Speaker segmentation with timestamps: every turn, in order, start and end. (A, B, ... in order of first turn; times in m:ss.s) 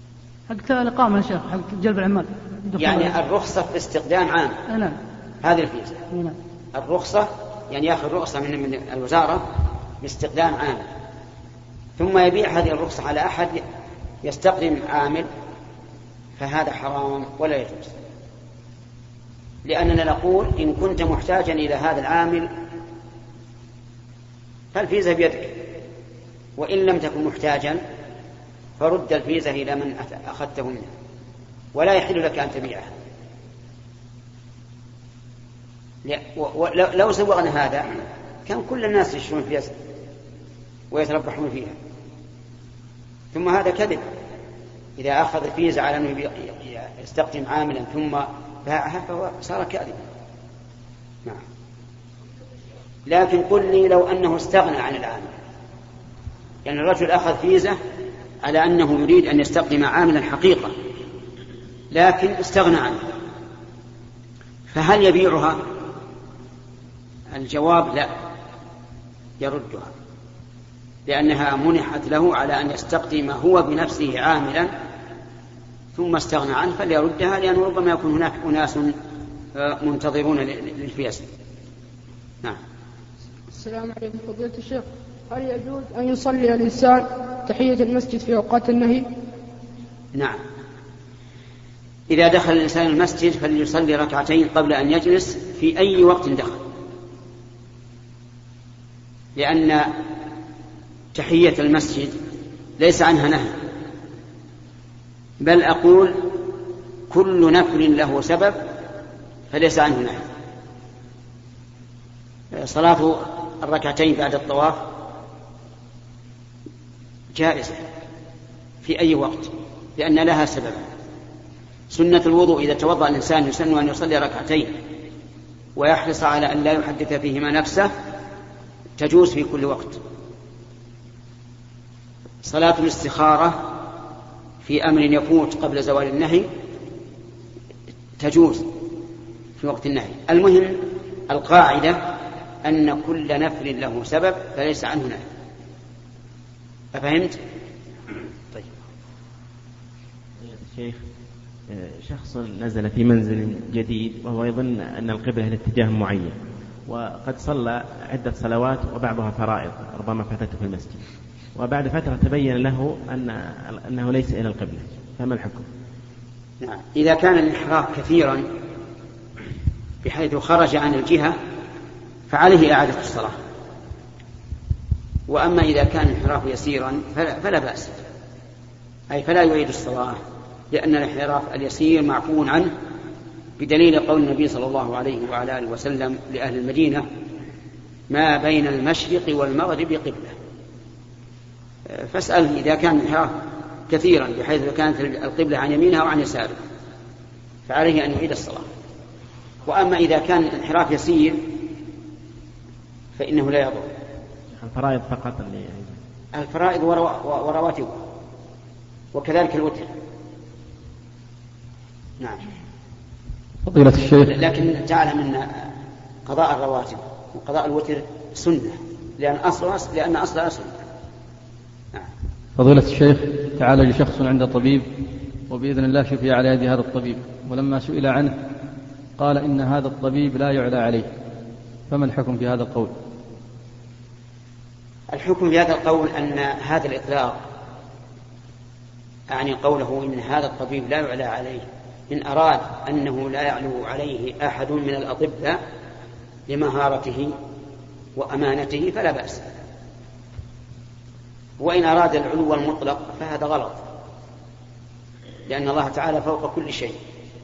0:00.5-0:03.1 A
0:02.8-0:04.6 B
0:04.7-0:05.0 A
0:05.4-0:06.0 B
0:06.1-0:06.4 A
0:06.7-0:09.5 B
0:10.0-0:10.8 B
0:12.0-0:13.6 B
0:14.2-0:15.3 B
0:16.4-0:17.9 B
0:19.6-0:22.5 B
0:24.7-0:25.6 B
0:26.6-0:27.8 B
0:28.8-0:30.9 B
0:31.7-0:32.9 B
0:36.0-0:39.7 B
0:40.9-0:41.8 B
0:43.3-0:44.0 B
0:45.0-0:50.1 B
0:53.1-0:55.3 B
0:56.6-0:57.8 B
0:58.4-1:00.7 B
1:01.9-1:03.0 B
1:04.7-1:05.6 B
1:07.3-1:08.1 B
1:09.4-1:09.9 B
1:11.1-1:14.7 B
1:15.9-1:18.9 B
1:19.5-1:21.2 B
1:23.5-1:29.1 C
1:30.1-1:30.4 B
1:32.1-1:36.6 B
1:39.4-1:39.9 B
1:41.1-1:42.1 B
1:42.8-1:43.6 B
1:45.4-1:46.3 B
1:47.1-1:48.6 B
1:49.5-1:50.2 B
1:52.5-1:54.9 B
1:57.3-1:57.8 B
1:58.8-2:00.9 B
2:01.9-2:04.7 B
2:05.8-2:07.9 B
2:09.0-2:10.0 B
2:12.4-2:13.8 B
2:14.6-2:16.5 B
2:18.2-2:18.7 B
2:19.6-2:22.0 B
2:22.6-2:25.2 B
2:26.9-2:27.4 B
2:30.4-2:31.0 D
2:31.7-2:41.0 D
2:41.5-2:45.7 D
2:46.6-2:48.4 B
2:50.0-2:51.4 B
2:52.3-2:53.3 B
2:55.3-2:58.0 B
2:59.1-3:00.2 B
3:00.7-3:02.7 B
3:03.6-3:07.0 B
3:08.1-3:10.3 B
3:11.9-3:13.4 B
3:13.9-3:16.6 B
3:17.6-3:18.7 B
3:19.6-3:21.5 B
3:23.2-3:23.9 B
3:24.5-3:26.0 D
3:26.3-3:28.0 B
3:29.1-3:29.9 B
3:33.6-3:34.3 E
3:34.2-3:35.7 B
3:36.2-3:40.7 B
3:42.6-3:44.9 E
3:45.5-3:48.4 E
3:49.2-3:51.1 E
3:51.9-3:52.9 E
3:55.1-3:57.4 B
3:59.3-4:05.6 B
4:06.5-4:07.3 B
4:08.2-4:09.4 B
4:11.6-4:13.8 B
4:15.5-4:17.0 B